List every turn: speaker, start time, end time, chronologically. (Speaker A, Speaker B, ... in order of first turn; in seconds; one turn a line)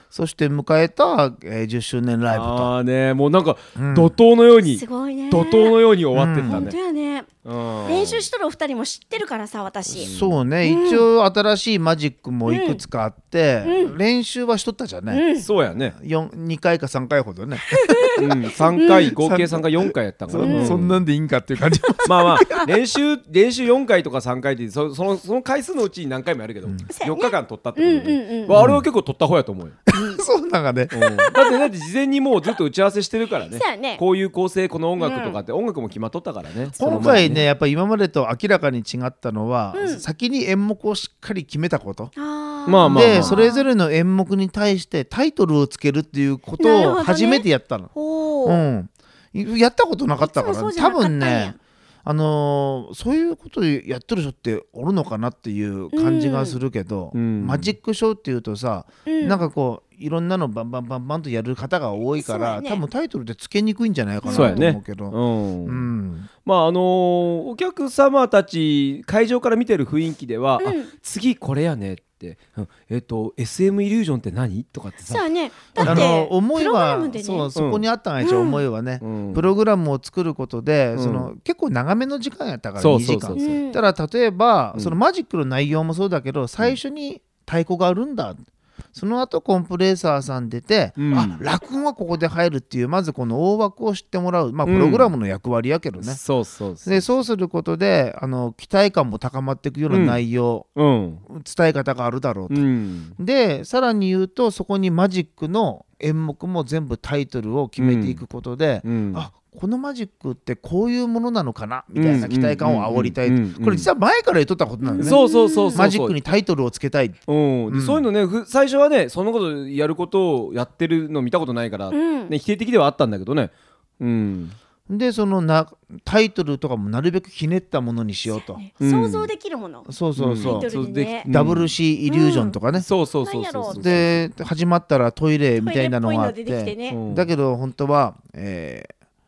Speaker A: 0.1-2.7
Speaker B: 2.3-6.8
Speaker A: 3.8-4.2
Speaker C: 4.7-5.8
Speaker A: 6.1-6.7
Speaker C: 6.5-7.3
Speaker B: 7.4-8.3
Speaker C: 7.8-10.1
Speaker A: 9.9-15.3
Speaker B: 10.0-10.4
Speaker C: 10.6-11.1
Speaker C: 12.5-12.8
Speaker C: 13.6-13.9
Speaker C: 15.1-15.5
Speaker B: 15.4-15.9
Speaker A: 15.9-18.3
Speaker C: 17.7-18.2
Speaker B: 18.2-21.0
Speaker C: 18.8-19.1
Speaker A: 19.0-22.6
Speaker C: 20.4-20.8
Speaker B: 22.0-29.8
Speaker C: 26.9-28.6
Speaker A: 28.5-28.9
Speaker A: 29.9-31.3
Speaker B: 30.9-37.5
Speaker C: 33.5-34.0
Speaker C: 35.0-35.4
Speaker C: 36.7-37.2
Speaker A: 36.8-42.1
Speaker C: 39.7-40.0
Speaker C: 42.2-43.7
Speaker B: 42.7-43.4
Speaker A: 42.8-47.9
Speaker C: 46.6-48.6
Speaker A: 48.5-66.3
Speaker C: 50.2-51.6
Speaker C: 55.9-56.6
Speaker B: 57.1-57.8
Speaker C: 59.1-59.5
Speaker C: 62.2-62.8
Speaker C: 64.2-64.6
Speaker B: 64.3-65.9
Speaker B: 66.5-75.2
Speaker C: 70.6-70.9
Speaker C: 75.1-77.5
Speaker B: 75.8-76.1
Speaker A: 75.8-88.4
Speaker B: 77.5-77.8
Speaker C: 78.2-78.6
Speaker B: 79.0-79.5
Speaker B: 81.0-81.3
Speaker B: 82.8-83.6
Speaker C: 83.3-83.9
Speaker A: 88.9-96.2
Speaker B: 91.0-91.4
Speaker B: 94.7-95.1
Speaker B: 96.0-97.1
Speaker A: 96.8-100.7
Speaker B: 99.9-100.2
Speaker B: 100.8-101.2
Speaker A: 101.3-102.6
Speaker B: 102.5-103.2
Speaker A: 103.2-115.2
Speaker B: 107.8-108.2
Speaker B: 108.8-109.3
Speaker B: 111.9-113.9
Speaker C: 114.8-115.8
Speaker B: 115.0-116.2
Speaker A: 115.7-118.1
Speaker B: 117.3-124.5
Speaker C: 121.9-122.3
Speaker A: 124.9-128.6
Speaker C: 128.3-129.9
Speaker B: 128.8-129.3
Speaker A: 129.9-130.7
Speaker B: 130.2-131.7
Speaker C: 130.4-131.3
Speaker A: 131.3-132.9
Speaker C: 132.1-132.6
Speaker B: 132.7-134.2
Speaker C: 133.2-134.1
Speaker A: 133.7-138.9
Speaker C: 135.6-137.0
Speaker B: 136.9-137.3